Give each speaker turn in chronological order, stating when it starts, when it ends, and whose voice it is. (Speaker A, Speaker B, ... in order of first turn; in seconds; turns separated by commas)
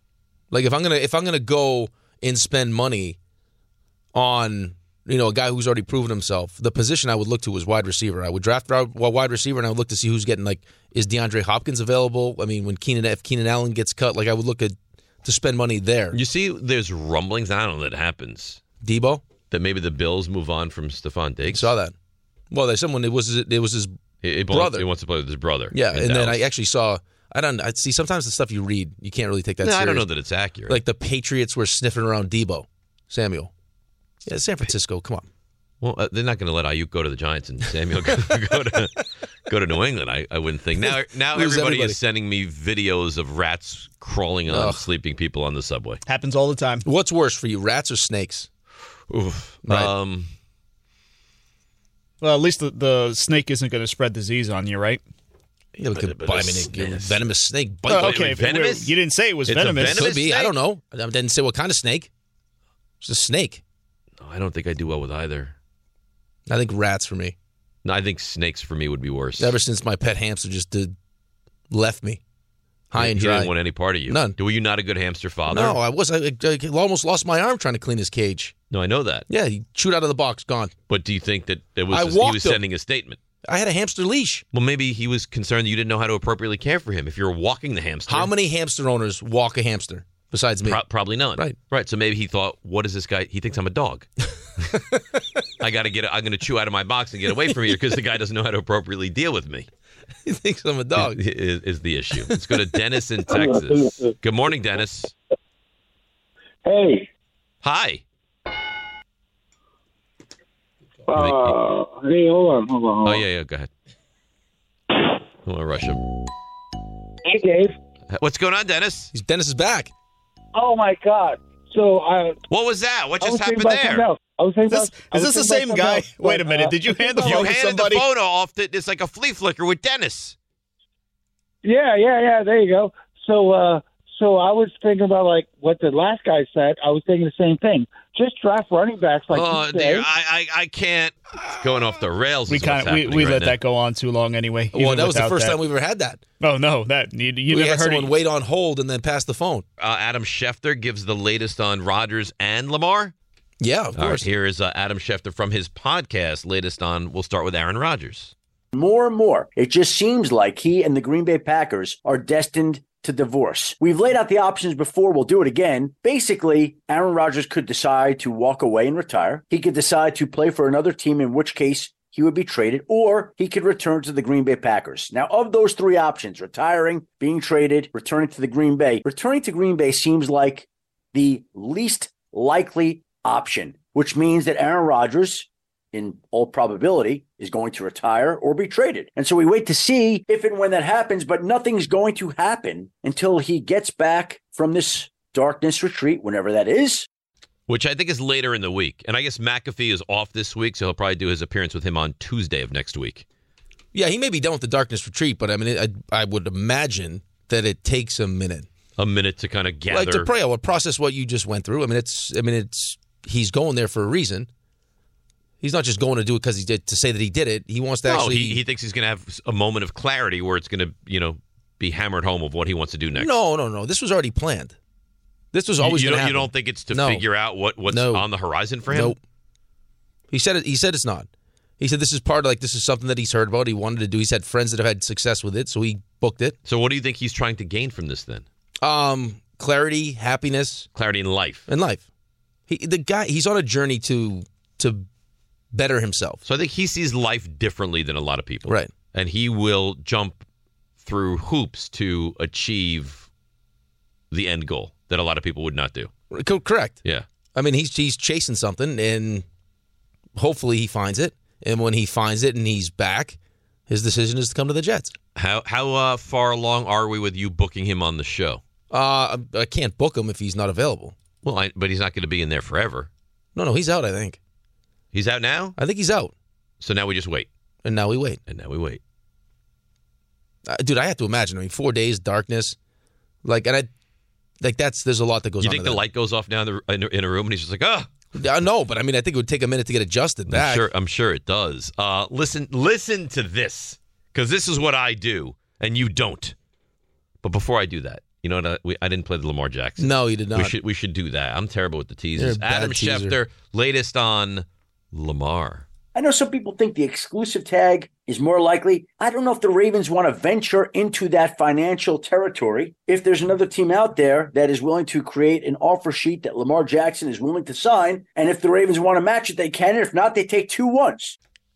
Speaker A: 0.5-3.2, Speaker A: 4.1-16.2, Speaker B: 16.1-18.6, Speaker A: 18.8-19.2, Speaker B: 19.5-21.7, Speaker A: 21.5-21.9, Speaker A: 22.5-23.9, Speaker B: 24.2-26.4, Speaker A: 24.5-24.9, Speaker A: 25.7-30.0, Speaker B: 29.6-30.8, Speaker A: 30.7-33.5, Speaker A: 34.2-35.3, Speaker B: 35.8-46.0, Speaker A: 40.8-42.0, Speaker A: 44.5-44.8, Speaker C: 46.0-46.8, Speaker A: 46.8-48.5, Speaker B: 49.1-50.3, Speaker A: 49.6-49.9, Speaker C: 52.2-55.0, Speaker A: 55.8-58.4, Speaker B: 55.9-57.2, Speaker C: 57.9-60.1, Speaker B: 57.9-60.5, Speaker A: 59.9-62.1, Speaker A: 63.0-63.6, Speaker B: 64.2-65.5, Speaker A: 66.5-67.3, Speaker B: 67.8-69.5, Speaker A: 69.4-70.9, Speaker A: 71.7-72.2, Speaker A: 72.9-73.5, Speaker B: 73.0-75.8, Speaker A: 74.1-74.3, Speaker A: 75.5-78.5, Speaker B: 78.7-79.2, Speaker A: 79.3-80.7, Speaker B: 80.9-83.2, Speaker A: 81.9-82.6, Speaker A: 83.4-84.4, Speaker B: 84.5-88.3, Speaker A: 88.1-90.8, Speaker B: 90.6-94.1, Speaker B: 95.6-99.7, Speaker A: 100.2-101.2, Speaker B: 101.0-105.1, Speaker D: 103.3-104.1, Speaker D: 106.6-107.1, Speaker B: 107.6-108.0, Speaker D: 111.1-113.2, Speaker B: 111.1-111.6, Speaker B: 113.0-113.7, Speaker B: 115.5-116.0, Speaker D: 117.2-117.7, Speaker B: 118.1-119.1, Speaker A: 119.1-119.9, Speaker D: 120.5-122.4, Speaker B: 122.5-124.0, Speaker D: 123.2-127.5, Speaker C: 124.7-128.0, Speaker B: 127.2-130.3, Speaker D: 131.6-140.1, Speaker B: 139.3-143.6, Speaker C: 142.5-145.6, Speaker A: 144.7-146.2, Speaker C: 146.4-148.1, Speaker A: 147.5-149.6, Speaker B: 149.8-153.1, Speaker A: 153.6-154.3, Speaker B: 154.0-158.3, Speaker E: 158.7-197.1, Speaker B: 197.7-203.2, Speaker A: 203.9-208.7, Speaker B: 209.0-210.3, Speaker A: 209.9-214.5, Speaker A: 215.6-218.6, Speaker B: 218.1-223.3, Speaker A: 223.2-224.7, Speaker A: 225.5-227.2, Speaker B: 225.8-229.2, Speaker A: 227.9-228.2, Speaker A: 228.9-229.2, Speaker A: 230.3-231.3, Speaker A: 231.8-236.6, Speaker B: 236.7-238.4, Speaker A: 238.8-240.9, Speaker B: 240.9-241.7, Speaker A: 241.7-242.0, Speaker A: 242.7-245.1, Speaker A: 245.7-246.4, Speaker B: 246.4-250.4, Speaker A: 248.7-248.9, Speaker B: 251.0-253.3, Speaker B: 254.3-256.1, Speaker A: 256.3-257.0, Speaker A: 257.5-259.4, Speaker A: 260.4-263.4, Speaker A: 263.9-265.1, Speaker B: 265.3-268.6, Speaker A: 268.9-271.1, Speaker B: 271.4-273.1, Speaker A: 273.6-274.4, Speaker B: 275.1-275.8, Speaker A: 275.8-276.3, Speaker B: 276.8-277.5, Speaker A: 277.8-278.4, Speaker B: 278.5-279.0, Speaker A: 280.6-282.8, Speaker A: 283.4-283.9, Speaker A: 284.6-286.0, Speaker B: 285.6-288.1, Speaker A: 288.3-290.9, Speaker B: 290.5-296.5, Speaker B: 297.4-305.9, Speaker A: 300.0-300.7, Speaker A: 302.4-303.4, Speaker E: 306.1-321.4